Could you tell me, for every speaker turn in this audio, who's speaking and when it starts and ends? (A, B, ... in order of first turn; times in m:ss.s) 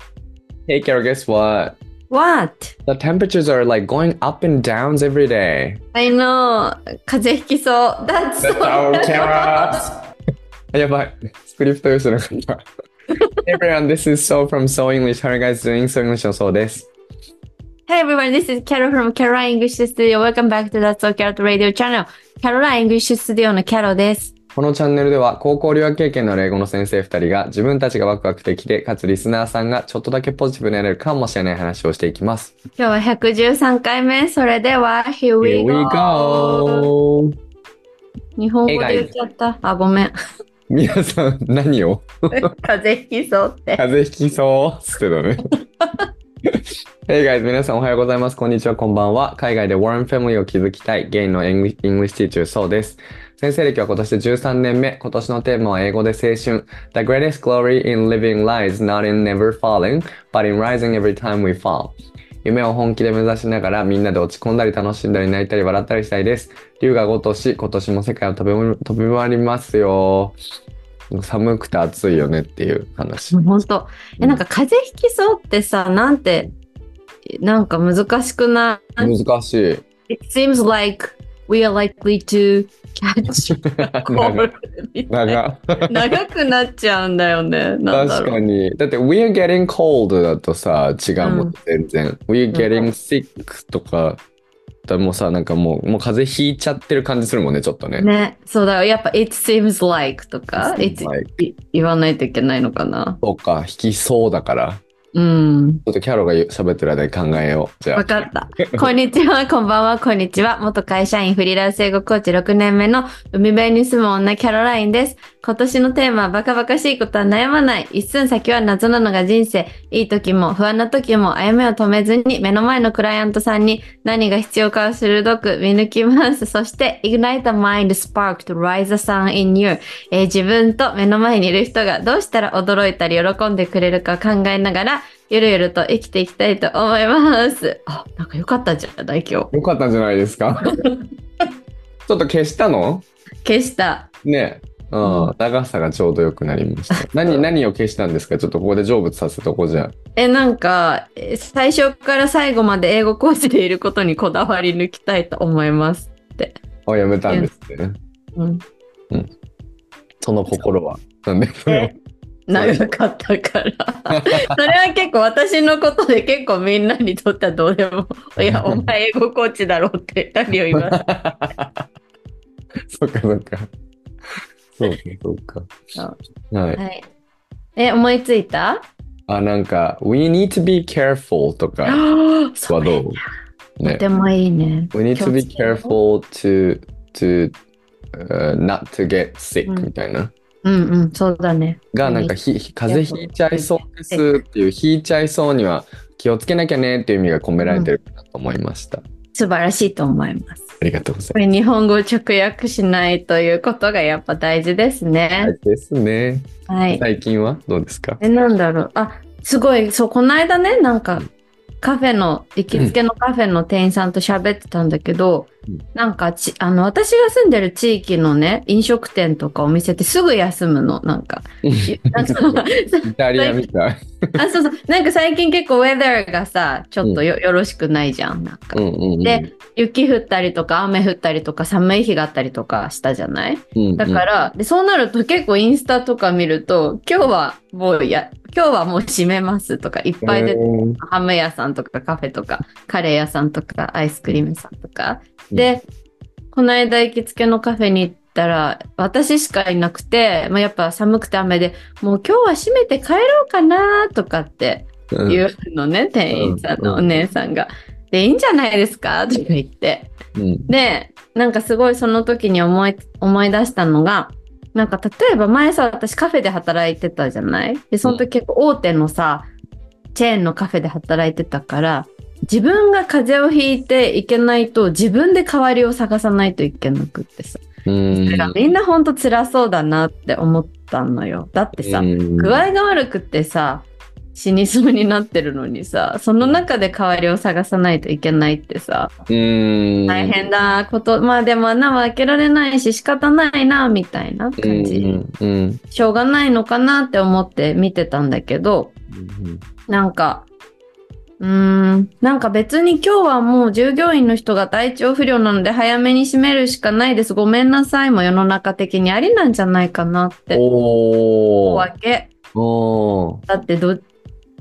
0:00.7-0:01.8 A
0:02.1-0:02.8 B
0:02.9-0:05.8 A
0:05.9-0:09.8 B
0:08.4-0:09.8 A
0:10.7-0:12.7 A
0:13.1-0:13.4 B
0:13.4-0:16.9 A
0:17.9-0:24.3 B
0:24.6-0:32.5 A
0:32.8-0:36.9 B
0:35.4-0:37.3 A
0:38.4-0:40.1 B
0:38.7-0:39.1 A
0:40.7-0:42.5 A
0:42.3-0:43.8 B
0:43.8-0:45.5 A
0:46.5-1:10.4 A
1:11.1-1:13.4 A
1:13.3-1:16.5 B
1:17.4-1:19.1 B
1:19.0-1:19.8 A
1:20.1-1:28.4 B
1:23.6-1:24.5 A
1:25.1-1:26.0 A
1:27.9-1:34.2 A
1:31.2-1:31.5 B
1:32.5-1:32.9 B
1:34.9-1:38.1 A
1:38.0-1:43.2 B
1:40.6-1:41.3 A
1:43.2-1:44.8 A
1:45.1-1:45.8 B
1:45.9-1:48.1 A
1:47.9-2:19.5 B
2:19.5-2:20.7 A
2:22.1-2:23.1 A
2:23.4-2:24.1 B
2:24.2-2:29.9 A
2:25.0-2:25.3 B
2:30.2-2:36.6 B
2:36.9-2:38.0 A
2:38.4-2:38.6 B
2:40.2-2:41.9 A
2:41.7-2:41.9 B
2:42.5-2:51.0 B
2:42.5-2:42.9 A
2:44.2-2:44.5 A
2:48.4-2:48.9 A
2:50.7-2:51.8 A
2:52.9-2:53.7 A
2:54.8-2:55.7 A
2:56.5-2:56.8 A
2:56.8-2:57.1 B
2:57.8-2:58.9 B
2:59.3-3:02.0 A
3:01.8-3:03.0 B
3:02.7-3:03.2 A
3:03.8-3:06.0 B
3:04.9-3:07.6 A
3:08.1-3:10.3 A
3:09.6-3:09.9 B
3:10.6-3:12.4 B
3:11.9-3:19.0 A
3:12.9-3:14.3 B
3:17.6-3:17.9 B
3:19.3-3:20.7 B
3:20.8-3:21.4 A
3:21.3-3:25.6 B
3:25.4-3:28.2 A
3:26.7-3:27.0 B
3:28.2-3:31.3 B
3:31.8-3:43.7 B
3:41.6-3:44.4 A
3:44.4-4:05.8 B
3:48.8-3:49.5 A
3:53.8-3:54.2 A
4:00.2-4:01.0 A
4:06.5-4:20.1 B
4:15.1-4:15.4 A
4:16.3-4:17.2 A
4:20.4-4:20.7 A
4:20.7-4:29.5 B
4:30.2-4:49.1 B
4:37.8-4:38.6 A
4:41.8-4:42.6 A
4:49.3-4:50.4 A
4:50.1-4:55.2 B
4:54.6-4:55.8 A
4:55.9-4:58.9 B
4:59.1-4:59.6 A
4:59.9-5:00.5 B
5:01.4-5:10.6 B
5:10.5-5:11.9 A
5:11.6-5:12.3 B
5:12.5-5:13.4 A
5:13.5-5:14.0 B